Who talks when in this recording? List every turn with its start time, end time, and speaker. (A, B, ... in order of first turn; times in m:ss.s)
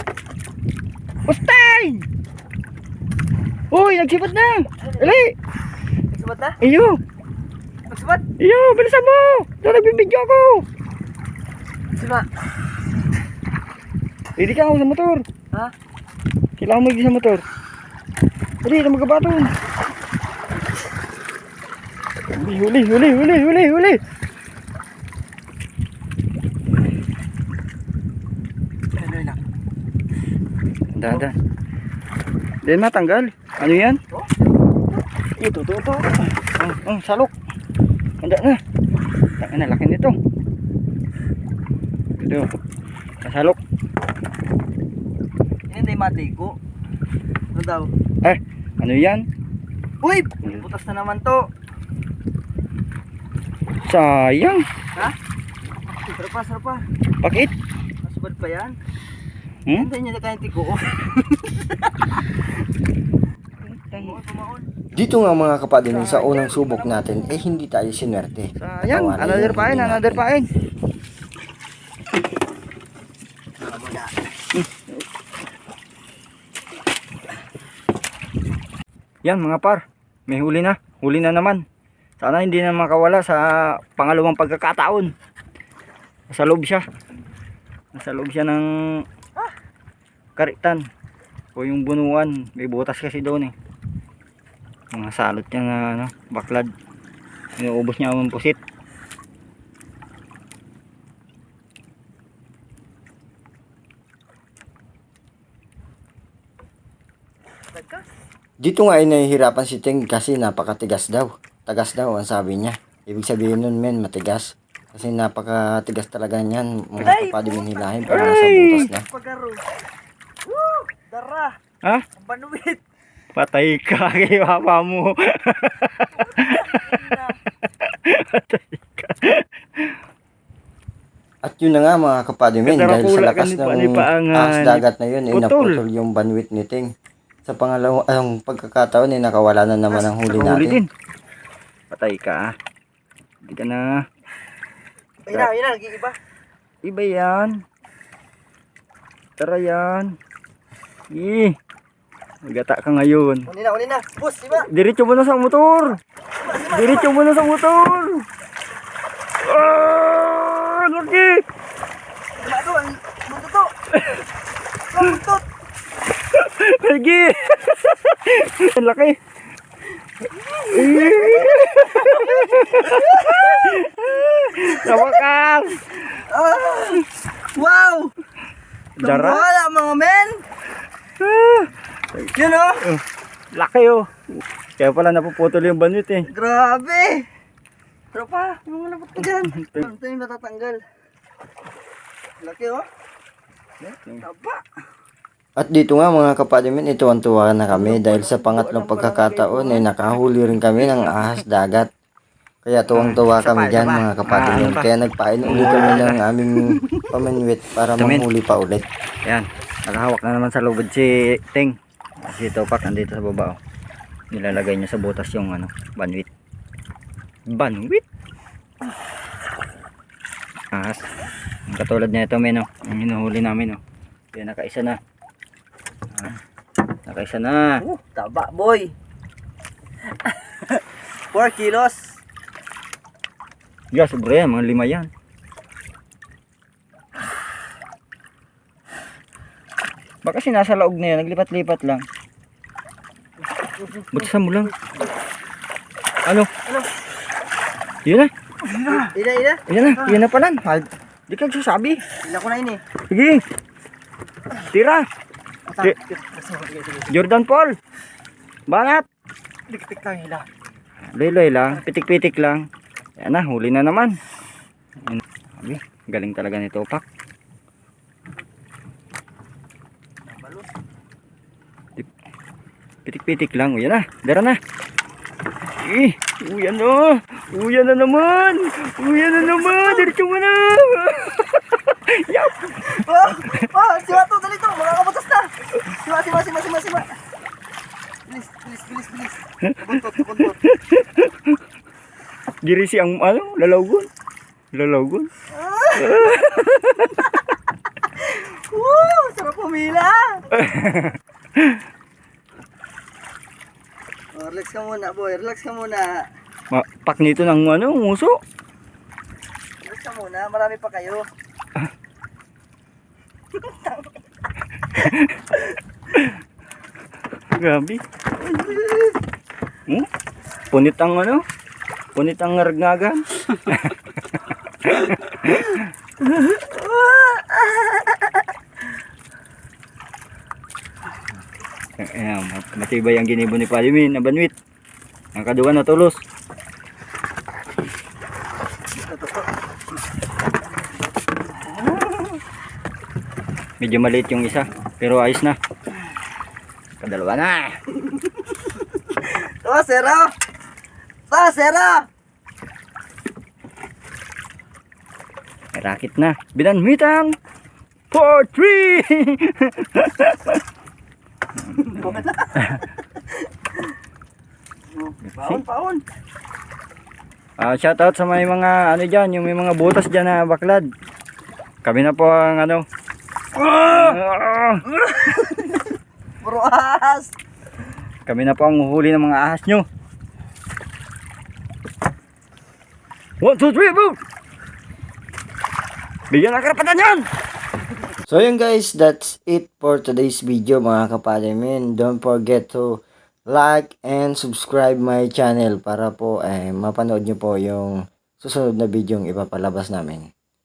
0:01.2-0:02.0 A
0:03.7-0:05.3 A
0:06.1-0:06.6 B
0:06.6-0:07.0 A
0:07.9-0:08.2 B
0:08.4-0:10.6 A
0:14.4-0:15.2 A
0:16.6-0:17.4 A
0:18.6-0:19.5 A
0:22.3-0:24.0 A
0:30.9-0:31.3 A
0:32.6-0:34.0 A
0:35.3-0:37.3 A
0:38.2-0:38.6 A
0:39.4-0:40.2 A
0:42.2-0:42.5 A
0:43.2-0:43.6 A
0:45.7-0:46.6 B
0:47.5-0:47.9 B
0:48.2-0:49.2 A
0:50.0-0:51.5 B
0:53.8-0:54.6 A
0:56.0-0:56.8 B
0:57.2-0:57.5 A
0:58.0-0:58.8 B
0:59.7-1:02.0 B
1:03.6-1:04.2 A
1:03.9-1:04.7 B
1:04.9-1:10.2 C
1:05.9-1:07.3 B
1:08.6-1:10.5 A
1:13.6-1:14.1 B
1:14.5-1:14.8 A
1:19.2-1:21.6 A
1:22.2-1:25.1 A
1:26.3-1:26.8 A
1:27.9-1:29.0 A
1:30.4-1:30.8 A
1:31.5-1:33.5 A
1:34.9-1:36.7 A
1:37.6-1:38.6 A
1:47.7-1:48.0 B
1:48.6-1:59.0 C
1:57.0-1:58.3 B
1:58.1-1:58.9 A
1:59.0-1:59.6 B
2:00.4-2:01.6 B
2:02.1-2:02.8 B
2:03.3-2:07.2 A
2:06.1-2:07.3 B
2:07.8-2:09.9 A
2:11.4-2:16.9 C
2:12.6-2:15.8 A
2:17.4-2:20.8 C
2:19.9-2:20.9 A
2:21.9-2:22.6 A
2:23.4-2:24.0 A
2:25.3-2:26.2 B
2:26.8-2:27.6 A
2:29.4-2:30.1 A
2:31.1-2:31.6 A
2:32.4-2:33.5 A
2:33.5-2:34.7 B
2:34.6-2:36.0 A
2:36.4-2:37.1 B
2:36.6-2:38.3 A
2:39.4-2:41.4 A
2:42.4-2:43.7 B
2:44.0-2:44.2 A
2:44.9-2:45.4 B
2:46.3-2:49.2 A
2:50.6-2:55.8 A
2:50.8-2:53.7 B
2:54.6-2:55.2 B
2:56.1-2:58.1 B
2:59.0-2:59.4 A
2:59.0-3:00.4 B
3:01.2-3:02.3 A
3:02.3-3:02.8 B
3:02.8-3:06.3 A
3:06.3-3:07.2 B
3:08.1-3:10.8 B
3:09.2-3:09.9 A
3:12.4-3:12.8 B
3:13.8-3:14.2 A
3:14.2-3:14.6 B
3:15.6-3:21.9 C
3:17.7-3:19.9 A
3:20.9-3:21.4 A
3:22.6-3:28.8 C
3:22.9-3:24.9 A
3:25.4-3:26.2 A
3:28.0-3:28.3 A
3:29.2-3:33.6 A
3:34.3-3:36.3 A
3:37.5-3:38.0 A
3:40.7-3:41.1 A
3:41.7-3:43.8 A
3:44.3-3:45.0 A
3:46.1-3:46.4 A
3:47.0-3:47.8 A
3:47.8-3:48.9 B
3:50.2-3:52.2 B
3:53.9-3:55.1 A
4:00.2-4:02.0 A
4:04.1-4:04.7 A
4:08.0-4:08.3 A
4:08.8-4:10.1 B
4:09.7-4:12.0 A
4:12.2-4:12.8 B
4:13.1-4:13.4 A
4:14.6-4:15.0 A
4:15.7-4:17.1 B
4:17.1-4:17.8 A
4:18.7-4:19.0 A
4:19.7-4:20.4 B
4:21.1-4:22.6 A
4:23.2-4:24.2 A
4:25.0-4:27.0 A
4:33.0-4:34.6 A
4:35.8-4:43.6 A
4:39.4-4:40.1 B
4:42.7-4:47.1 B
4:48.3-4:50.6 B
4:49.7-4:51.3 A
4:52.6-4:54.1 A
4:54.7-4:55.3 A
4:55.5-4:56.6 B
4:56.0-4:57.3 A
4:58.1-5:00.4 B
5:00.5-5:01.8 A
5:04.3-5:06.2 B
5:06.7-5:08.4 A
5:09.8-5:11.2 B
5:13.6-5:14.0 B
5:14.9-5:15.5 A
5:17.6-5:18.0 A
5:18.4-5:19.1 B
5:20.7-5:21.4 A
5:22.1-5:24.0 A
5:24.8-5:25.8 A
5:26.4-5:28.4 B
5:32.0-5:34.5 A
5:35.3-5:36.2 A
5:39.0-5:39.5 B
5:43.8-5:45.6 A
5:47.0-5:47.8 A
5:48.1-5:50.3 B
5:51.3-5:52.1 B
5:55.7-5:57.4 A
5:58.1-6:00.6 A
6:01.7-6:02.8 A
6:01.8-6:02.7 B
6:05.0-6:06.0 B
6:05.2-6:05.6 A
6:07.6-6:10.8 A
6:11.8-6:12.8 A
6:13.6-6:14.9 A
6:13.8-6:14.1 B
6:14.9-6:15.8 B
6:16.4-6:17.3 B
6:18.2-6:19.8 A
6:23.4-6:24.2 A
6:26.3-6:27.3 A
6:28.3-6:40.3 C